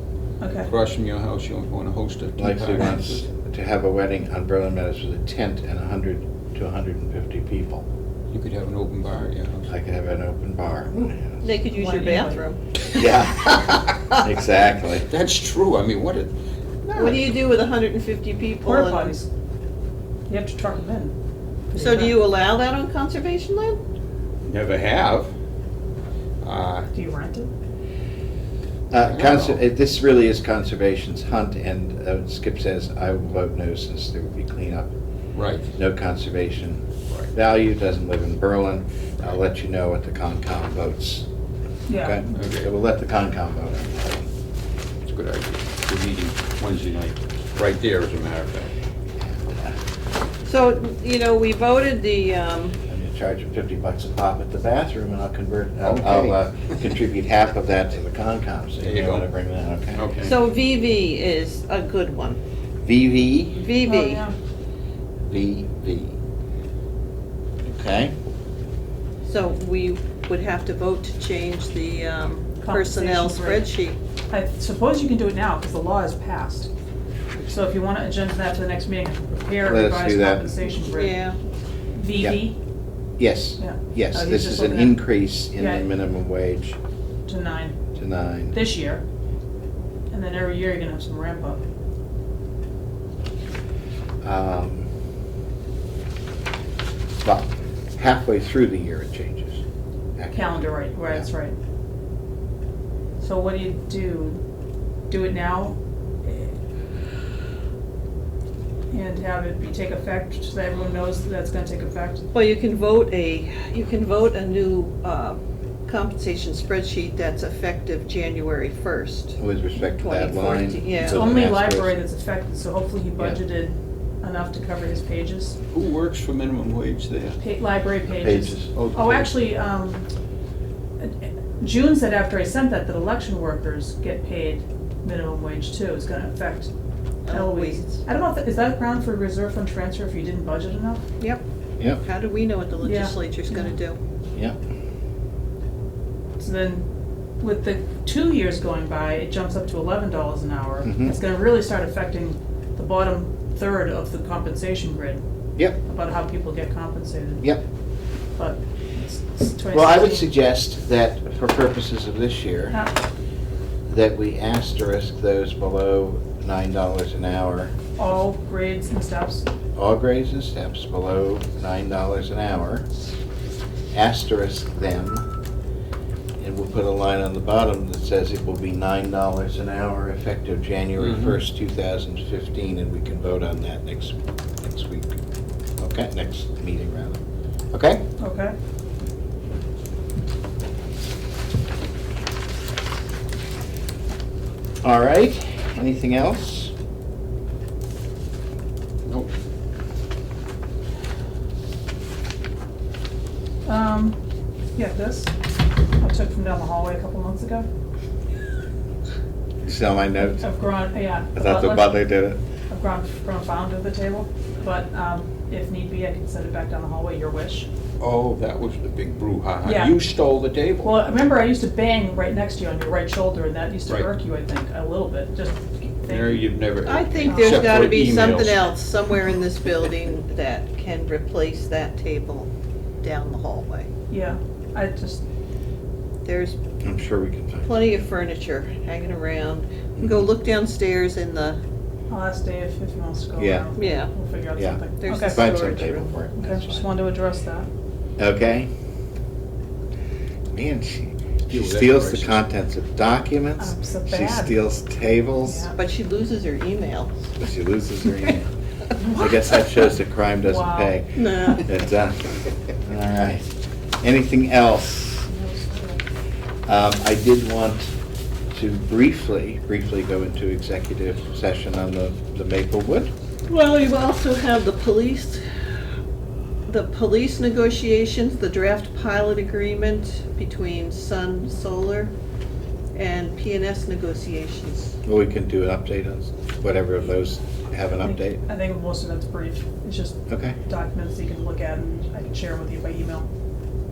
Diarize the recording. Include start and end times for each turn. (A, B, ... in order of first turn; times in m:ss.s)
0:00.4-0:00.7 A
0:00.7-0:03.2 B
0:02.4-0:07.8 C
0:08.3-0:09.7 B
0:09.7-0:11.4 C
0:11.4-0:13.7 D
0:11.7-0:12.4 A
0:12.9-0:15.1 C
0:15.1-0:16.3 B
0:16.9-0:17.2 B
0:16.9-0:19.2 D
0:18.6-0:19.3 A
0:20.3-0:21.2 A
0:21.7-0:22.2 A
0:21.8-0:23.8 D
0:24.4-0:25.3 B
0:26.4-0:26.9 B
0:26.9-0:27.5 A
0:28.9-0:34.9 C
0:29.0-0:29.6 B
0:35.3-0:35.7 B
0:35.7-0:41.3 C
0:41.9-0:42.4 A
0:41.9-0:44.3 C
0:42.4-0:42.7 B
0:45.0-0:48.7 B
0:49.2-0:49.8 C
0:50.4-0:52.8 D
0:52.9-1:00.2 C
0:55.8-0:56.4 B
0:58.8-0:59.3 B
1:00.0-1:00.3 B
1:00.2-1:02.4 D
1:02.8-1:03.6 C
1:03.6-1:04.2 D
1:03.8-1:04.4 A
1:05.3-1:06.2 C
1:07.6-1:08.1 C
1:09.2-1:14.0 D
1:12.6-1:13.7 A
1:14.3-1:16.7 A
1:17.4-1:21.3 A
1:19.6-1:20.5 C
1:20.7-1:21.4 D
1:21.9-1:22.6 A
1:23.2-1:26.8 C
1:23.6-1:25.9 A
1:27.3-1:27.8 A
1:28.0-1:28.6 C
1:28.5-1:29.0 A
1:30.1-1:31.6 A
1:34.2-1:34.9 C
1:37.2-1:39.6 C
1:40.2-1:41.3 C
1:40.3-1:41.6 A
1:43.2-1:44.4 A
1:45.1-1:46.5 A
1:48.9-1:52.3 A
1:52.3-2:01.2 D
1:59.4-2:02.0 C
2:01.0-2:05.6 A
2:05.7-2:07.4 B
2:07.4-2:10.0 A
2:08.1-2:08.7 C
2:08.7-2:09.3 B
2:11.0-2:16.7 A
2:17.2-2:18.0 D
2:17.3-2:21.0 A
2:22.0-2:24.0 D
2:22.8-2:23.8 A
2:26.4-2:26.8 A
2:27.4-2:35.2 A
2:30.8-2:31.2 C
2:35.8-2:37.5 A
2:38.4-2:40.3 A
2:39.7-2:42.8 C
2:43.9-2:47.7 C
2:48.0-2:49.5 A
2:49.8-2:52.9 C
2:53.9-2:55.3 C
2:56.4-3:05.2 C
3:01.0-3:01.4 B
3:05.8-3:07.2 C
3:07.7-3:08.0 C
3:08.2-3:08.6 A
3:14.8-3:16.7 C
3:23.6-3:24.2 A
3:24.8-3:25.3 A
3:26.0-3:27.7 A
3:29.6-3:30.5 C
3:30.2-3:32.0 A
3:31.3-3:32.4 C
3:32.7-3:37.7 A
3:38.0-3:41.0 B
3:39.6-3:40.0 A
3:40.8-3:46.6 A
3:46.1-3:48.7 B
3:46.8-3:52.5 D
3:47.3-3:47.9 A
3:53.0-3:53.9 D
3:54.1-3:55.2 A
3:56.2-3:56.6 D
3:56.8-3:57.7 C
3:57.6-4:01.6 D
4:02.1-4:05.8 A
4:03.4-4:03.7 C
4:03.8-4:04.1 D
4:04.6-4:06.9 C
4:05.0-4:06.1 D
4:06.4-4:07.7 A
4:08.2-4:08.7 C
4:10.5-4:15.7 C
4:11.5-4:12.4 B
4:13.6-4:14.6 A
4:15.4-4:15.8 A
4:15.7-4:17.2 D
4:17.4-4:18.5 C
4:19.0-4:23.5 C
4:20.4-4:21.6 A
4:21.2-4:21.6 D
4:24.0-4:25.3 C
4:25.3-4:26.0 A
4:26.7-4:27.9 C
4:28.5-4:33.1 C
4:33.5-4:35.4 D
4:36.7-4:42.1 D
4:42.9-4:45.0 D
4:45.0-4:48.4 C
4:47.9-4:53.3 A
4:50.3-4:50.6 C